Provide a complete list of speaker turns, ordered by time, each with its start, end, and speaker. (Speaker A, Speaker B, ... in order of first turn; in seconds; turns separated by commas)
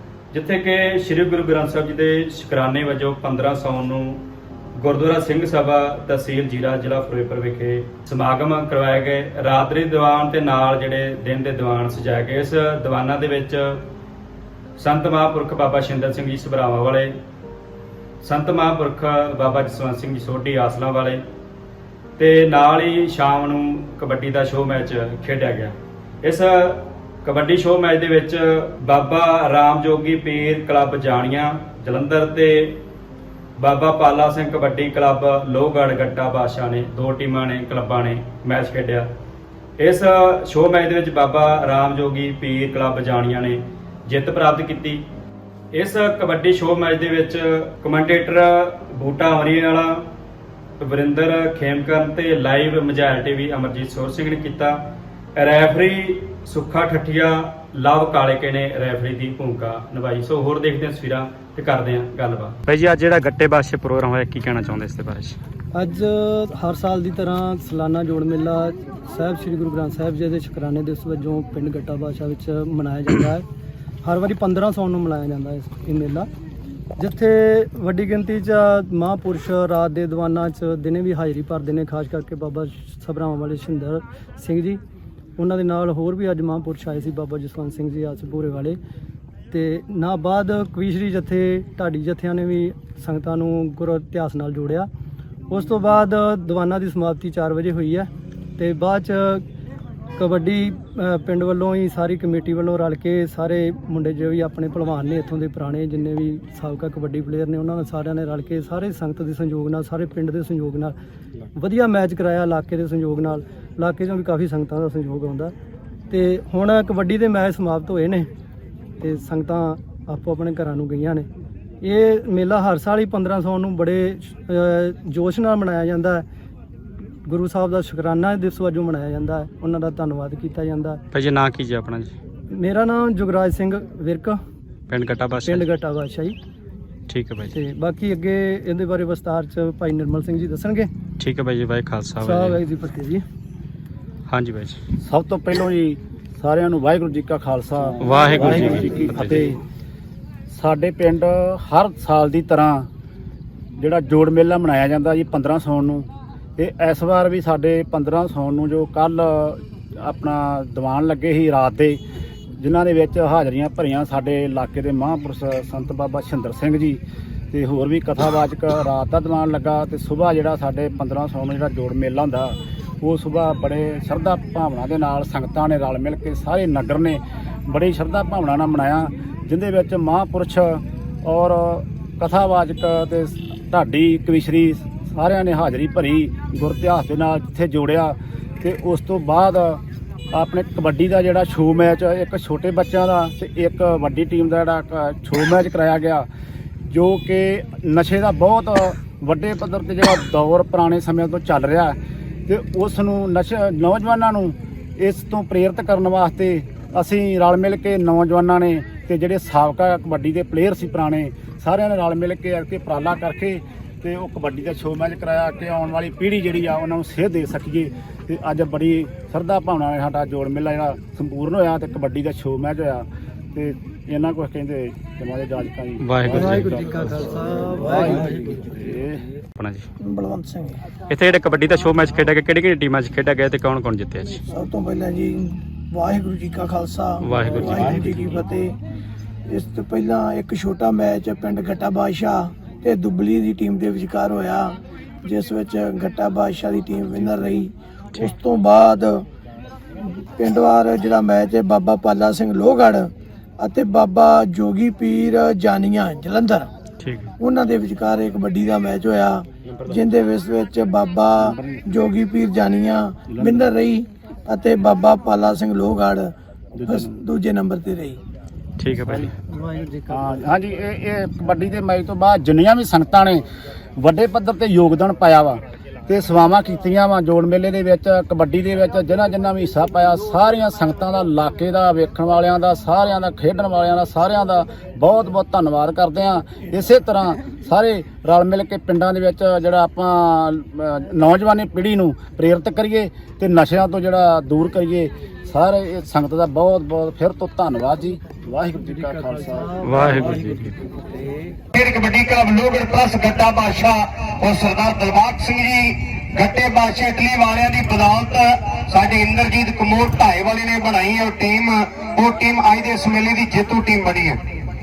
Speaker A: 0.3-4.2, Speaker A: 4.8-13.8, Speaker A: 14.8-17.1, Speaker A: 18.2-21.2, Speaker A: 22.2-32.8, Speaker A: 33.6-39.1, Speaker A: 39.8-45.0, Speaker A: 45.7-50.0, Speaker A: 50.8-54.8, Speaker A: 55.4-65.4, Speaker B: 65.7-73.5, Speaker B: 74.0-76.3, Speaker B: 77.0-84.8, Speaker B: 85.4-88.8, Speaker B: 89.5-94.9, Speaker B: 95.5-99.4, Speaker B: 100.2-111.0, Speaker B: 111.5-115.5, Speaker B: 116.1-118.3, Speaker B: 119.0-121.3, Speaker B: 121.8-126.2, Speaker B: 127.2-131.0, Speaker A: 131.1-132.1, Speaker B: 132.5-134.4, Speaker A: 134.9-135.7, Speaker B: 135.4-136.4, Speaker A: 137.1-137.6, Speaker B: 137.5-140.9, Speaker A: 141.2-142.6, Speaker B: 142.2-143.2, Speaker A: 144.3-144.8, Speaker C: 145.0-149.6, Speaker A: 148.0-149.5, Speaker C: 150.5-152.9, Speaker C: 153.8-162.0, Speaker C: 162.6-167.0, Speaker C: 167.5-189.8, Speaker C: 190.3-196.3, Speaker C: 196.9-227.2, Speaker A: 226.0-226.8, Speaker B: 226.3-228.7, Speaker C: 227.8-229.2, Speaker A: 229.6-229.8, Speaker D: 230.0-230.8, Speaker A: 231.1-234.4, Speaker D: 234.5-238.8, Speaker A: 237.2-238.3, Speaker D: 239.5-249.3, Speaker D: 250.0-256.7, Speaker A: 257.0-257.3, Speaker D: 257.4-266.3, Speaker C: 261.4-261.9, Speaker C: 263.3-263.7, Speaker C: 266.8-267.2, Speaker D: 266.9-268.2, Speaker A: 268.8-269.4, Speaker B: 269.5-270.1, Speaker C: 270.1-273.4, Speaker C: 274.0-300.4, Speaker B: 299.2-300.7, Speaker A: 299.8-300.8, Speaker E: 301.7-314.4